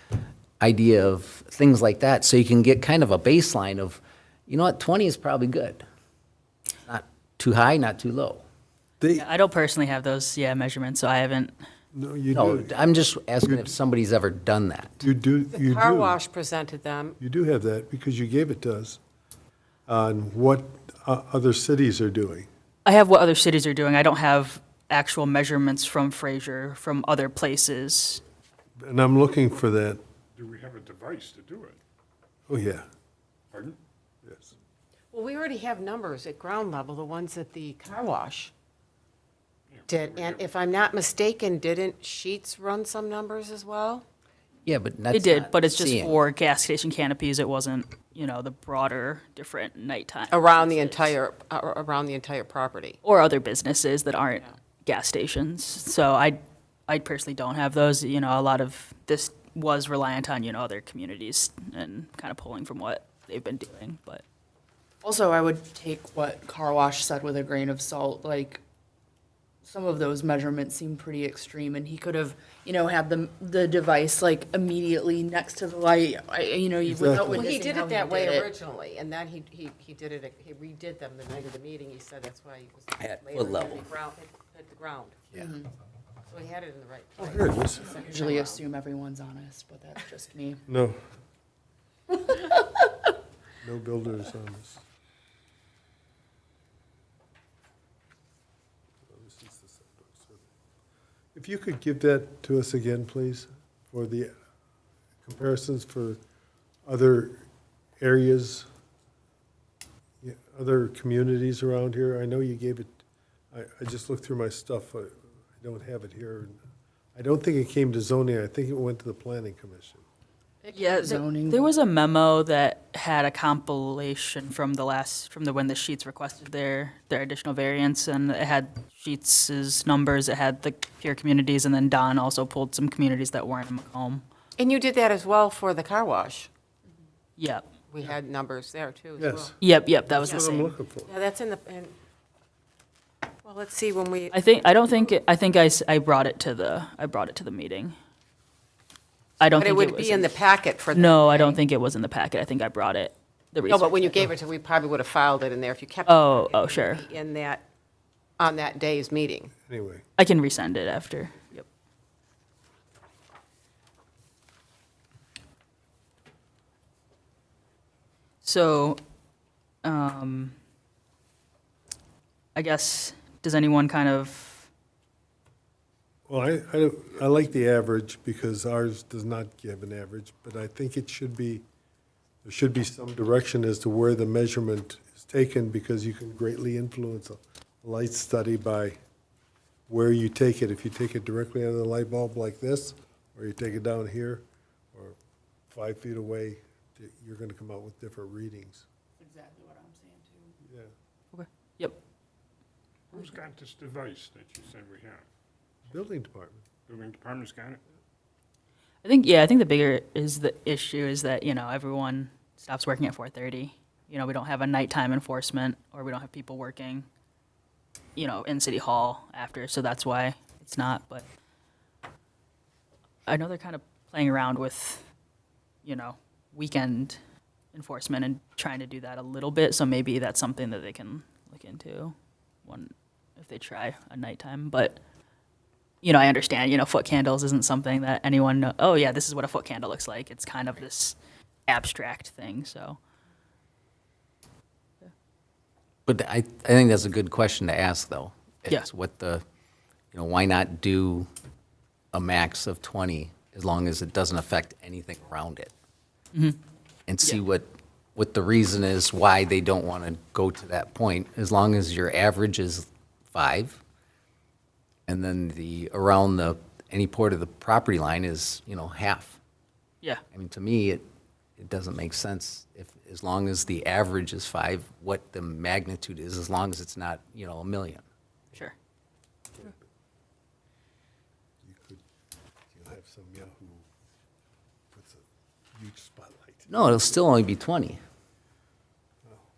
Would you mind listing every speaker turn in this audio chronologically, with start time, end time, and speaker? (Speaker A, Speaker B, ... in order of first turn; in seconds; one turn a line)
Speaker A: 0.6-5.8
Speaker A: 6.8-8.4
Speaker B: 9.0-9.3
Speaker C: 9.1-11.5
Speaker B: 11.9-12.8
Speaker A: 12.3-15.0
Speaker B: 13.4-13.7
Speaker B: 15.0-16.2
Speaker D: 15.5-17.2
Speaker B: 17.2-19.0
Speaker B: 19.9-22.5
Speaker C: 22.8-28.2
Speaker B: 28.8-30.0
Speaker E: 30.4-31.8
Speaker B: 32.5-32.9
Speaker E: 33.5-33.8
Speaker B: 34.2-34.5
Speaker D: 35.1-38.5
Speaker E: 39.7-40.5
Speaker D: 39.9-44.0
Speaker A: 44.6-46.2
Speaker C: 45.1-51.1
Speaker D: 50.3-53.0
Speaker C: 53.0-64.2
Speaker F: 65.0-68.6
Speaker F: 69.6-78.5
Speaker B: 76.8-77.5
Speaker D: 77.2-85.3
Speaker A: 83.0-83.8
Speaker F: 85.3-85.7
Speaker D: 86.3-88.6
Speaker B: 87.2-87.9
Speaker F: 87.9-90.6
Speaker B: 90.7-91.0
Speaker B: 93.6-94.8
Speaker B: 99.0-100.4
Speaker B: 101.3-104.3
Speaker B: 105.2-106.2
Speaker B: 106.8-107.4
Speaker B: 108.0-108.7
Speaker B: 110.2-113.0
Speaker B: 113.5-116.6
Speaker B: 117.1-120.0
Speaker D: 120.6-121.1
Speaker C: 120.7-134.2
Speaker F: 121.0-121.7
Speaker D: 134.6-136.5
Speaker C: 137.4-137.6
Speaker D: 137.9-139.5
Speaker B: 139.2-141.1
Speaker C: 139.6-140.7
Speaker D: 140.1-140.4
Speaker D: 141.1-141.9
Speaker D: 143.4-144.3
Speaker C: 144.3-147.9
Speaker C: 149.4-150.3
Speaker D: 149.4-151.6
Speaker C: 150.9-154.3
Speaker D: 153.7-157.6
Speaker C: 156.1-157.1
Speaker D: 158.4-159.5
Speaker B: 159.6-160.0
Speaker C: 160.2-161.7
Speaker C: 168.4-169.0
Speaker C: 169.8-170.6
Speaker C: 172.6-174.7
Speaker B: 176.3-181.6
Speaker B: 182.4-189.0
Speaker B: 189.9-195.2
Speaker B: 195.7-198.8
Speaker F: 199.2-200.5
Speaker B: 200.6-200.9
Speaker C: 201.3-202.0
Speaker E: 203.1-205.3
Speaker B: 205.9-206.6
Speaker E: 206.9-207.8
Speaker C: 209.0-217.1
Speaker C: 218.2-221.2
Speaker C: 223.3-225.0
Speaker C: 225.8-227.2
Speaker C: 227.7-235.0
Speaker C: 236.0-241.2
Speaker C: 241.7-243.0
Speaker A: 246.1-249.4
Speaker A: 250.1-251.3
Speaker A: 252.1-255.7
Speaker A: 257.1-263.8
Speaker A: 265.1-269.4
Speaker A: 270.3-271.0
Speaker A: 271.6-278.1
Speaker B: 281.6-282.0
Speaker B: 282.7-283.9
Speaker B: 284.9-285.2
Speaker B: 285.8-286.7
Speaker A: 286.7-288.0